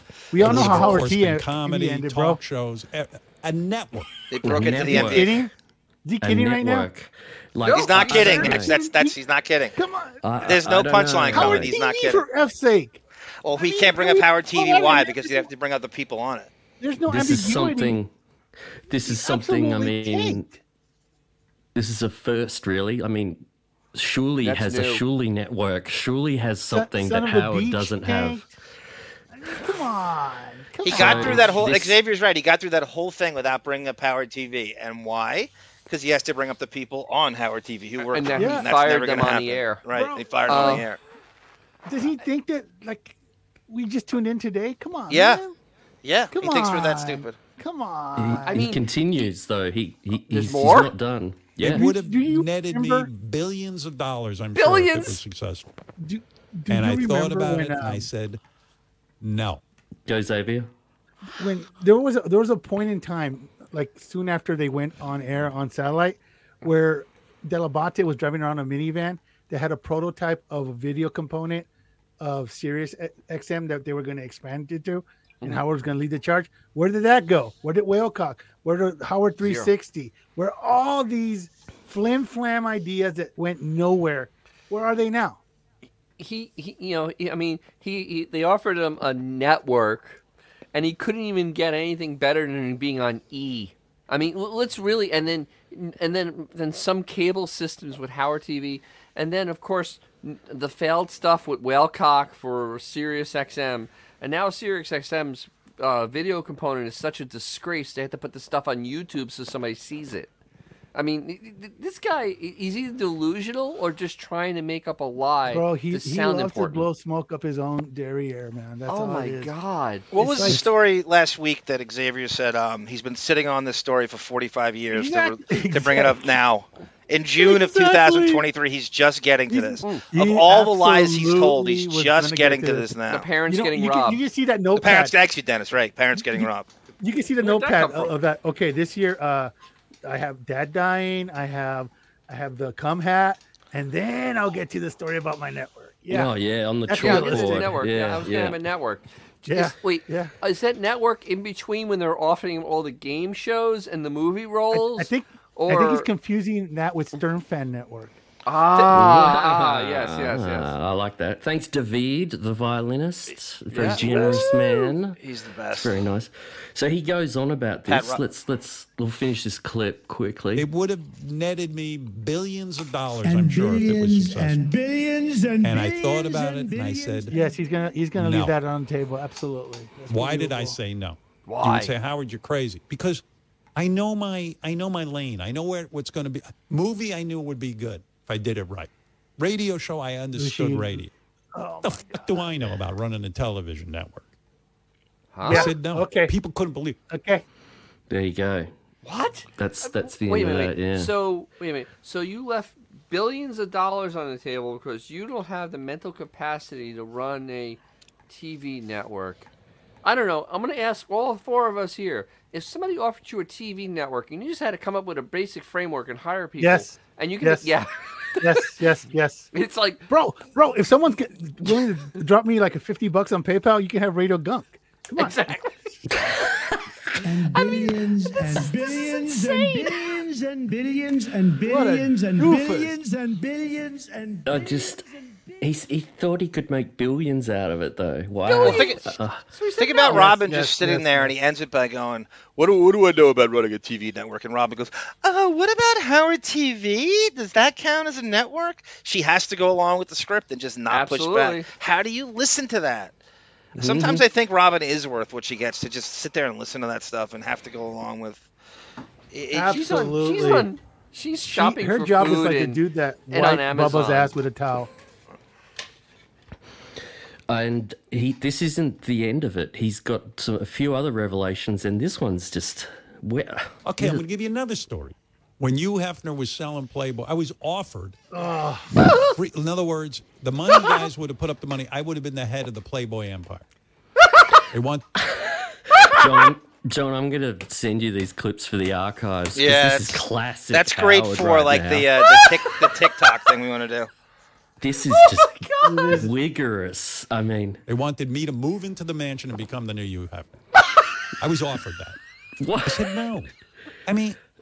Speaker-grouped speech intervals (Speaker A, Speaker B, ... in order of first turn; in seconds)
Speaker A: 0.3-2.4, 4.5-5.5, 6.0-6.9, 8.1-9.2, 9.8-10.2, 11.3-13.0, 13.6-15.5, 16.8-18.0, 19.1-20.5, 26.7-28.5, 29.3-31.6, 38.4-38.7, 39.9-40.9, 41.9-43.2, 43.7-45.5, 46.3-48.7, 51.6-53.1, 56.0-58.1, 61.3-71.7, 72.2-85.4, 115.5-119.5, 120.2-120.7, 124.9-126.3, 127.4-128.4, 129.5-132.9, 133.5-135.2, 136.2-136.5, 137.0-139.5, 140.1-146.3, 146.9-147.8, 149.4-150.3, 154.7-158.2, 177.3-180.8, 190.4-192.5, 195.5-196.3, 197.1-197.4, 216.6-217.7, 218.4-219.5, 220.1-225.6, 231.7-232.9, 240.1-241.3, 259.5-260.7, 261.4-264.9, 278.3-278.9, 295.8-296.4
Speaker B: 0.4-4.1, 51.6-55.7, 56.7-58.4, 59.2-59.6, 170.6-174.7, 175.6-177.3, 178.2-178.6, 180.1-183.2, 183.8-191.1, 191.8-194.3, 195.5-197.0, 273.9-278.2, 279.1-283.6, 284.7-285.1, 297.9-300.6, 301.4-302.2, 302.8-303.5, 304.1-304.4
Speaker C: 0.4-0.9, 4.4-5.3, 6.2-8.7, 10.2-11.7, 17.1-18.1, 18.9-20.5, 21.8-23.4, 23.9-28.4, 30.9-32.0, 48.2-51.9, 60.1-60.7, 146.1-148.6, 158.8-165.2, 165.7-170.7, 198.1-198.7, 199.6-201.1, 226.1-226.8, 234.4-235.0, 235.6-239.4, 253.8-254.2, 267.5-274.2, 286.0-292.4, 294.8-297.8, 302.6-303.2
Speaker D: 4.3-5.4, 7.7-9.8, 10.4-12.2, 13.4-16.5, 30.8-41.0, 45.1-45.4, 46.0-47.4, 120.1-133.3, 134.8-136.7, 163.8-166.1, 167.9-168.2, 238.6-239.0, 239.8-253.1, 253.8-258.4, 259.3-259.8, 289.6-294.1
Speaker E: 7.6-8.6, 24.4-25.0, 38.1-39.8, 40.5-40.9, 48.5-48.9, 50.2-50.9, 54.5-55.2, 79.4-79.7, 86.2-90.2, 90.7-110.3, 111.0-116.9, 118.9-120.6, 133.1-134.2, 137.4-138.2, 147.0-156.1, 158.5-160.7, 163.7-164.4, 181.5-181.9, 195.3-195.7, 199.0-209.5, 210.0-218.7, 219.5-220.1, 225.2-225.7, 238.5-240.4, 250.9-251.7, 259.7-262.8, 263.3-264.3, 279.1-279.3
Speaker F: 173.2-177.4, 227.2-235.0